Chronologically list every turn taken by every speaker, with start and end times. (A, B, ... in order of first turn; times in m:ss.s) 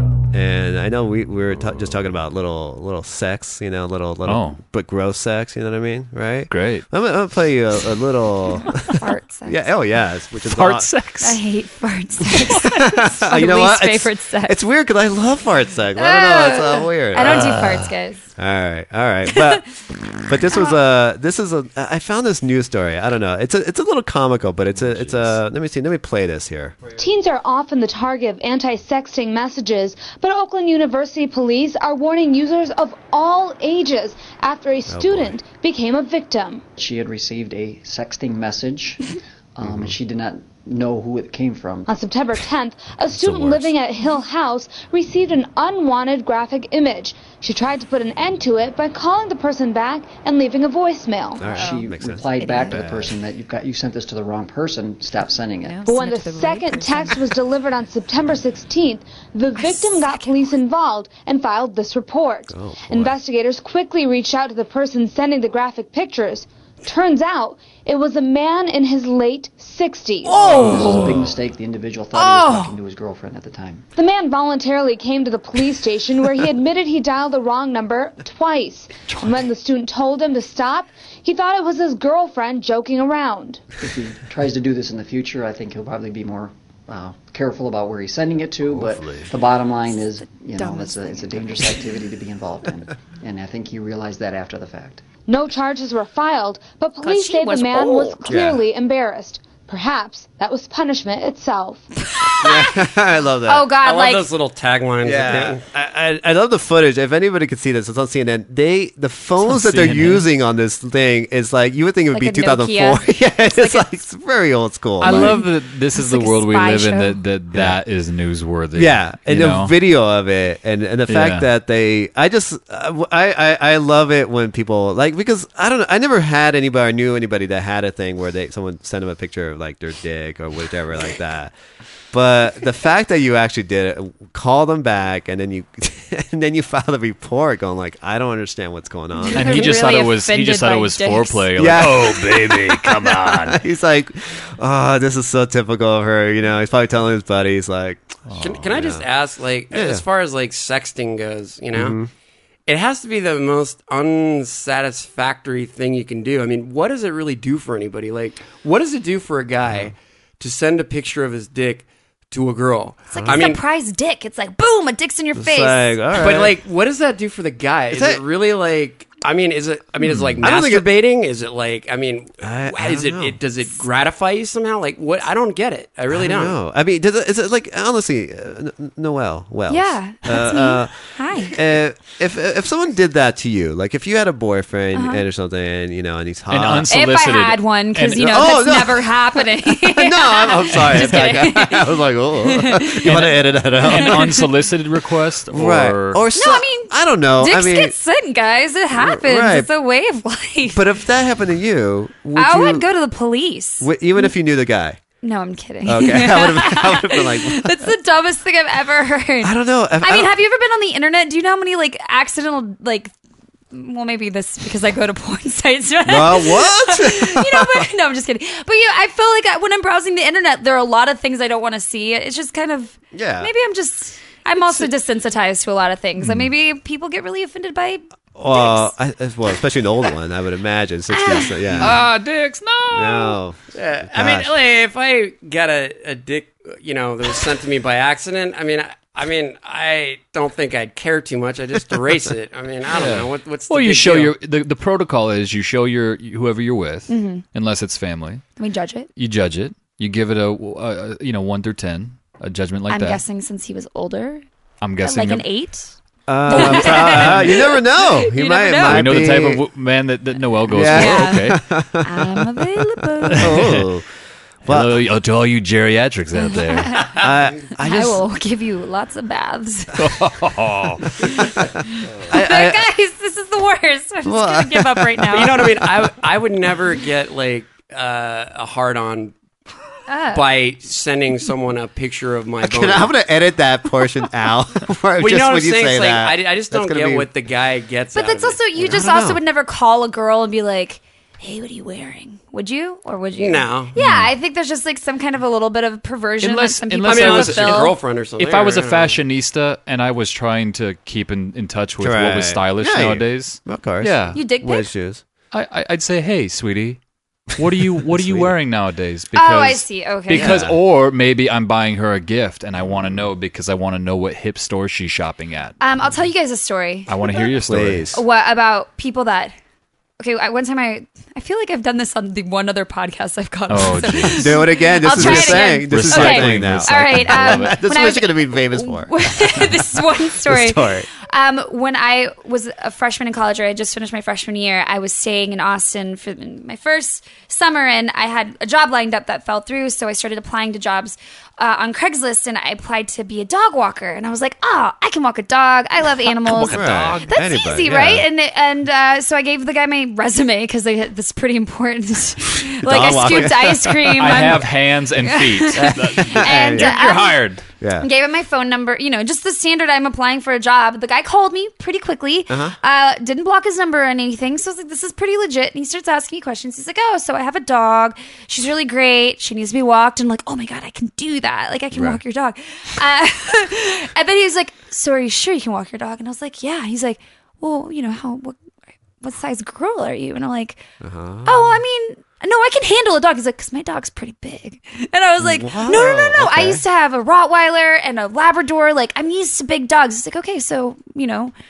0:00.3-0:10.9 A
0:04.2-0:04.6 B
0:06.5-0:06.8 B
0:09.0-0:09.7 C
0:10.4-0:11.4 B
0:11.2-0:14.6 C
0:12.6-0:17.7 A
0:16.0-0:18.3 C
0:17.3-0:17.7 B
0:18.4-0:26.8 A
0:19.3-0:19.6 C
0:20.5-0:20.8 C
0:24.7-0:25.4 B
0:27.0-0:36.6 D
0:34.9-0:35.4 A
0:36.8-0:41.9 E
0:39.6-0:40.0 A
0:41.9-0:51.6 D
0:43.2-0:43.7 B
0:51.4-0:53.1 A
0:51.6-0:55.9 E
0:52.4-0:52.8 C
0:55.8-1:10.6 D
0:59.6-1:00.6 C
1:02.5-1:03.2 A
1:10.3-1:11.3 A
1:10.5-1:13.8 E
1:10.7-1:11.2 B
1:12.2-1:12.7 C
1:14.0-1:23.6 D
1:23.8-1:35.0 E
1:28.6-1:29.3 B
1:30.5-1:31.5 C
1:35.3-1:41.8 D
1:37.0-1:38.3 C
1:38.3-1:38.6 A
1:42.0-1:42.9 C
1:42.4-1:43.7 A
1:43.5-1:44.2 C
1:43.8-1:45.6 F
1:45.0-1:55.4 A
1:49.4-1:50.3 B
1:52.1-1:53.9 C
1:55.0-1:57.2 C
1:55.0-1:59.7 B
1:57.5-1:57.8 A
1:58.8-2:11.5 A
2:01.1-2:01.5 B
2:12.1-2:19.7 A
2:19.2-2:21.5 C
2:19.3-2:23.6 B
2:21.6-2:29.1 A
2:28.3-2:28.7 B
2:28.4-2:32.0 F
2:29.7-2:30.0 A
2:31.7-2:32.1 A
2:32.7-2:43.6 F
2:43.1-2:46.0 C
2:43.1-2:43.5 A
2:45.4-2:46.6 A
2:46.1-2:56.6 F
2:47.9-2:48.2 A
2:50.0-2:50.4 B
2:50.4-2:50.9 A
2:52.4-2:53.4 A
2:56.1-3:06.9 A
2:59.7-3:01.6 C
3:04.9-3:05.2 C
3:06.5-3:08.6 B
3:06.9-3:13.1 C
3:08.2-3:14.4 A
3:10.8-3:11.3 B
3:13.0-3:16.2 B
3:13.8-3:14.4 C
3:15.5-3:18.0 A
3:16.4-3:20.8 C
3:18.9-3:19.7 A
3:20.7-3:22.9 A
3:22.4-3:24.3 C
3:23.8-3:25.0 A
3:25.2-3:33.1 C
3:25.8-3:27.9 A
3:29.4-3:30.4 A
3:33.7-3:48.9 C
3:36.1-3:37.9 A
3:43.1-3:43.5 A
3:46.2-3:46.5 B
3:48.4-3:52.1 A
3:51.1-3:52.0 C
3:51.8-3:53.2 B
3:52.9-3:54.5 A
3:53.7-4:04.4 F
4:02.9-4:08.4 B
4:07.1-4:07.4 C
4:08.6-4:09.1 C
4:09.2-4:13.2 B
4:12.9-4:14.4 C
4:14.8-4:15.5 B
4:15.0-4:15.9 C
4:16.3-4:19.6 A
4:16.5-4:19.2 C
4:16.5-4:17.6 B
4:18.9-4:21.6 B
4:20.7-4:24.0 A
4:20.9-4:23.6 C
4:23.3-4:23.9 B
4:24.6-4:25.0 A
4:24.7-4:27.0 B
4:26.4-4:30.0 C
4:27.1-4:28.2 A
4:30.0-4:31.1 B
4:31.6-4:32.8 A
4:32.3-4:35.6 C
4:34.2-4:36.1 A
4:35.3-4:39.3 F
4:40.1-4:40.4 C
4:40.3-4:43.1 F
4:42.6-4:47.3 A
4:45.2-4:49.0 F
4:48.2-4:58.0 C
4:48.8-4:49.4 A
4:53.4-4:53.9 F
4:54.0-4:54.3 B
4:56.4-5:04.4 B
4:57.1-4:59.2 F
5:02.0-5:05.2 A
5:04.3-5:04.9 C
5:05.5-5:07.0 B
5:07.5-5:15.8 B
5:07.7-5:08.6 A
5:09.4-5:10.6 C
5:10.3-5:10.8 A
5:12.8-5:13.3 A
5:15.8-5:17.4 C
5:17.1-5:18.2 B
5:17.6-5:18.2 A
5:18.1-5:19.5 C
5:20.2-5:57.4 C
5:23.7-5:27.8 B
5:24.2-5:31.1 A
5:46.5-5:48.3 A
5:46.5-5:47.2 B
5:52.8-5:54.5 A
5:54.2-5:57.6 B
5:55.8-5:57.0 A
5:57.8-5:58.1 A
5:58.0-6:18.6 C
6:02.5-6:02.8 A
6:11.9-6:12.2 A
6:19.2-6:20.8 C
6:21.0-6:21.8 A
6:21.4-6:31.5 C
6:25.4-6:26.8 A